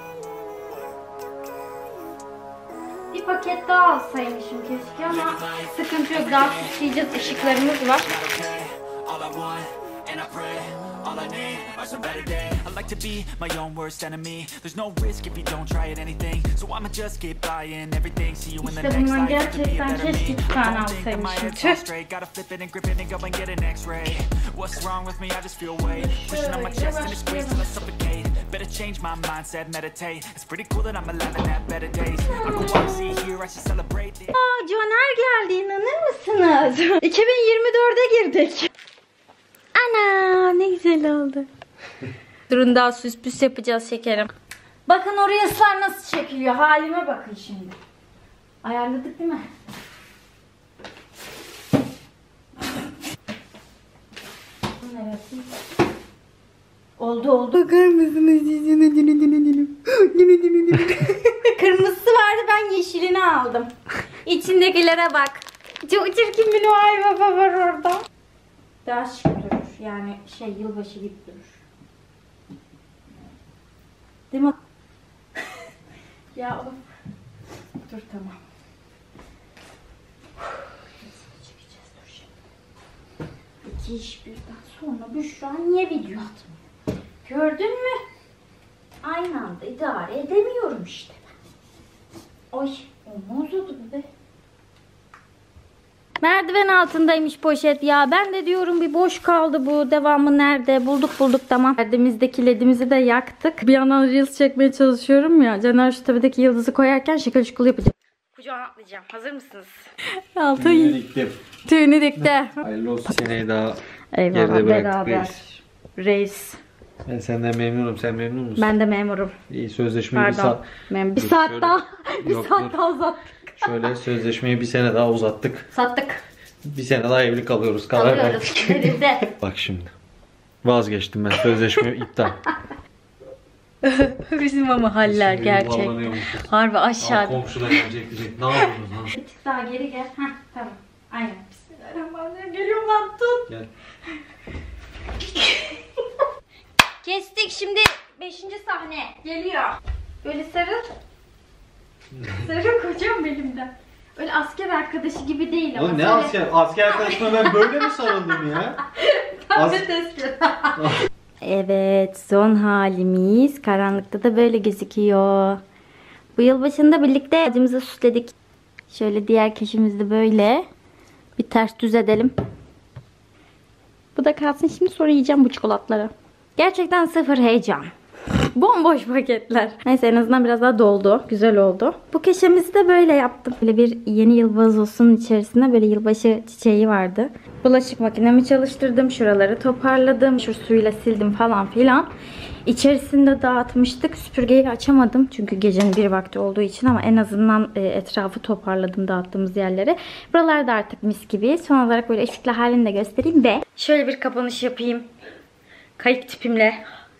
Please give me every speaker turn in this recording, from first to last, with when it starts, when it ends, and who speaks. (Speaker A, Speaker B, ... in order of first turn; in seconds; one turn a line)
Speaker A: 3.1-8.1
Speaker B: 8.1-34.3
Speaker A: 18.6-21.8
Speaker A: 25.8-27.6
Speaker A: 32.2-33.2
Speaker A: 34.3-38.7
Speaker A: 39.7-41.5
Speaker A: 42.5-44.3
Speaker A: 44.9-47.8
Speaker A: 48.6-49.5
Speaker A: 54.8-55.5
Speaker A: 57.0-63.7
Speaker A: 64.2-68.0
Speaker A: 68.8-71.6
Speaker A: 74.3-74.6
Speaker A: 76.3-76.8
Speaker A: 77.8-78.4
Speaker A: 80.5-82.3
Speaker A: 83.6-86.6
Speaker A: 87.2-88.0
Speaker A: 89.0-91.3
Speaker A: 92.5-94.1
Speaker A: 96.2-111.0
Speaker C: 110.5-111.4
Speaker A: 111.6-112.6
Speaker C: 112.2-115.4
Speaker A: 114.1-116.6
Speaker C: 117.0-118.7
Speaker A: 118.6-119.3
Speaker C: 119.5-120.6
Speaker A: 120.1-123.9
Speaker C: 121.2-122.8
Speaker C: 123.6-125.7
Speaker A: 125.7-126.2
Speaker C: 126.6-129.9
Speaker A: 127.9-129.3
Speaker C: 130.6-132.4
Speaker A: 133.8-137.8
Speaker C: 135.0-139.1
Speaker A: 138.6-143.5
Speaker A: 145.2-145.8
Speaker A: 147.0-150.9
Speaker A: 152.3-160.9
Speaker C: 155.7-158.8
Speaker C: 159.5-159.8
Speaker C: 160.8-161.0
Speaker A: 161.4-165.6
Speaker A: 166.3-168.3
Speaker A: 168.9-170.7
Speaker A: 171.3-172.3
Speaker A: 174.1-192.1
Speaker A: 192.6-205.1
Speaker A: 206.0-206.8